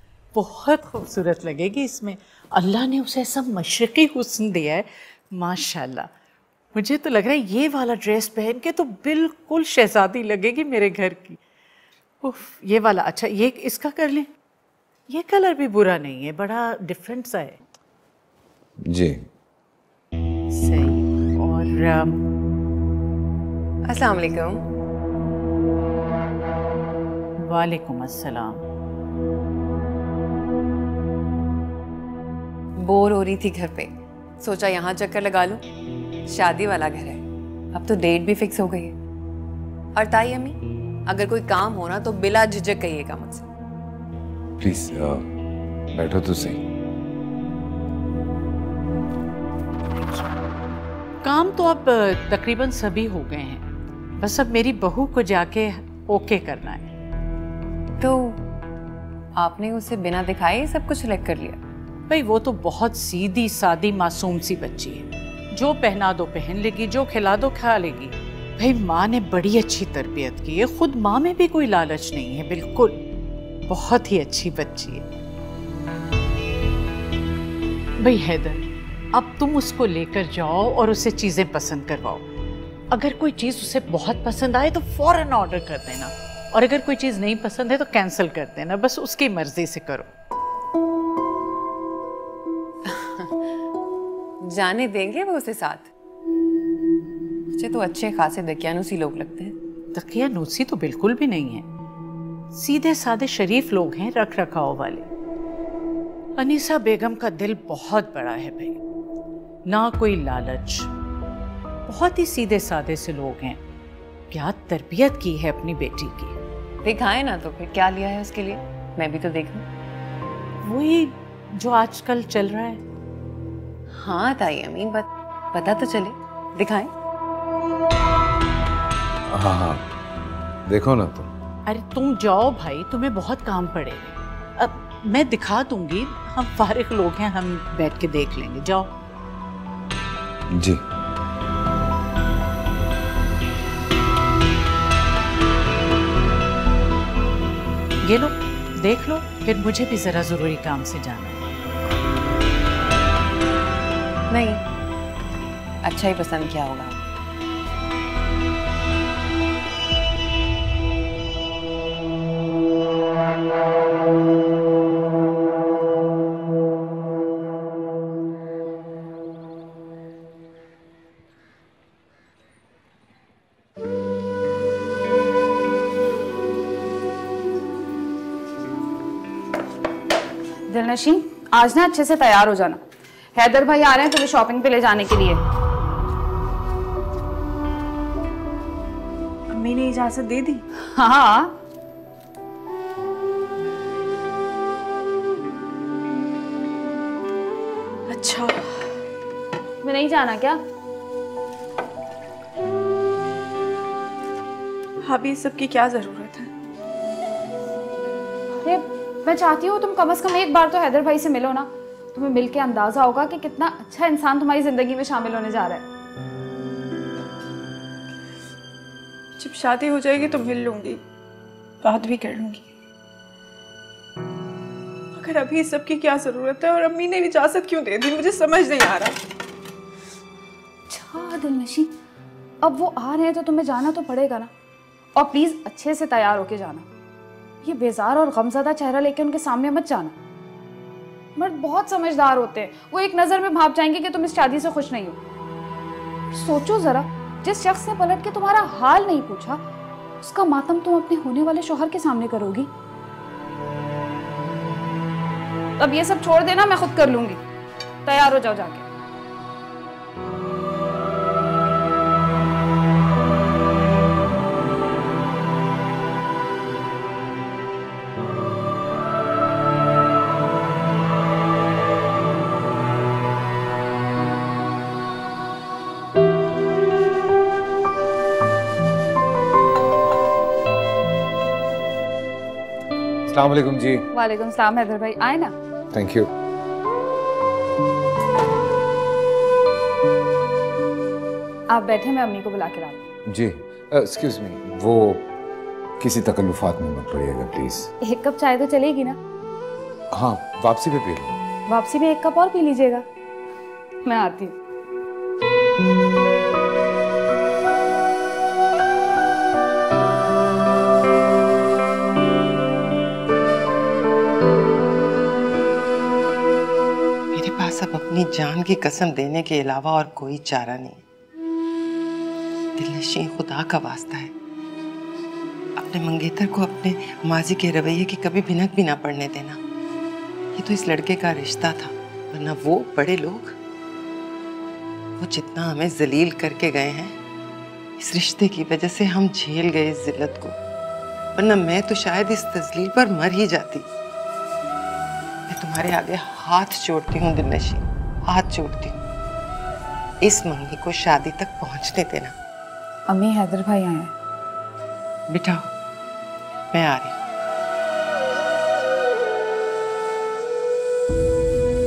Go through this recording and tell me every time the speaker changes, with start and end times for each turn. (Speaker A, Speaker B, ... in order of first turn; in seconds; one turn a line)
Speaker A: 0.3-6.1
Speaker A: 6.7-11.4
Speaker A: 12.2-14.3
Speaker A: 15.1-17.6
Speaker B: 18.9-19.2
Speaker A: 20.5-22.2
Speaker C: 23.9-24.6
Speaker A: 27.4-28.6
Speaker C: 32.8-35.6
Speaker C: 36.3-37.2
Speaker C: 37.7-39.0
Speaker C: 40.0-43.5
Speaker B: 44.6-45.2
Speaker B: 45.9-46.6
Speaker C: 49.9-50.3
Speaker A: 51.2-53.6
Speaker A: 54.2-56.9
Speaker C: 58.0-58.4
Speaker C: 59.4-61.6
Speaker A: 62.1-73.0
Speaker A: 73.7-75.0
Speaker A: 78.0-82.2
Speaker A: 82.9-90.1
Speaker C: 92.8-93.4
Speaker C: 94.5-95.9
Speaker C: 97.5-99.5
Speaker A: 99.9-101.7
Speaker A: 102.5-105.1
Speaker A: 106.4-108.8
Speaker A: 109.7-110.9
Speaker A: 111.9-113.6
Speaker A: 114.3-116.4
Speaker C: 116.8-119.7
Speaker A: 120.6-122.8
Speaker C: 124.0-126.9
Speaker B: 129.3-129.9
Speaker B: 130.7-131.3
Speaker A: 131.7-138.9
Speaker B: 140.5-140.8
Speaker A: 148.0-151.4
Speaker C: 154.3-154.6
Speaker C: 155.8-157.0
Speaker D: 180.7-182.8
Speaker D: 183.3-185.4
Speaker E: 189.5-190.6
Speaker D: 190.7-191.6
Speaker E: 198.1-198.9
Speaker D: 199.8-200.6
Speaker E: 205.0-206.5
Speaker D: 208.6-215.9
Speaker E: 219.4-221.0
Speaker E: 221.8-222.7
Speaker E: 225.2-229.2
Speaker D: 230.9-231.9
Speaker D: 232.6-234.5
Speaker D: 235.2-236.9
Speaker D: 237.6-240.2
Speaker D: 241.3-245.2
Speaker D: 246.3-249.6
Speaker D: 250.2-252.7
Speaker D: 255.8-257.4
Speaker D: 258.1-258.9
Speaker B: 283.3-284.1
Speaker D: 284.1-285.5
Speaker B: 285.9-286.3
Speaker D: 291.7-293.0
Speaker B: 293.3-295.2
Speaker B: 296.0-297.9
Speaker D: 298.0-299.2
Speaker B: 300.1-301.4
Speaker D: 301.7-303.1
Speaker D: 304.1-304.6
Speaker F: 317.3-321.0
Speaker F: 322.8-324.3
Speaker F: 325.8-329.6
Speaker F: 330.6-333.6
Speaker F: 335.2-337.2
Speaker F: 338.0-340.6
Speaker F: 341.4-343.9
Speaker F: 345.5-349.0
Speaker F: 350.2-352.3
Speaker D: 353.1-354.1
Speaker F: 355.3-355.7
Speaker F: 356.7-357.1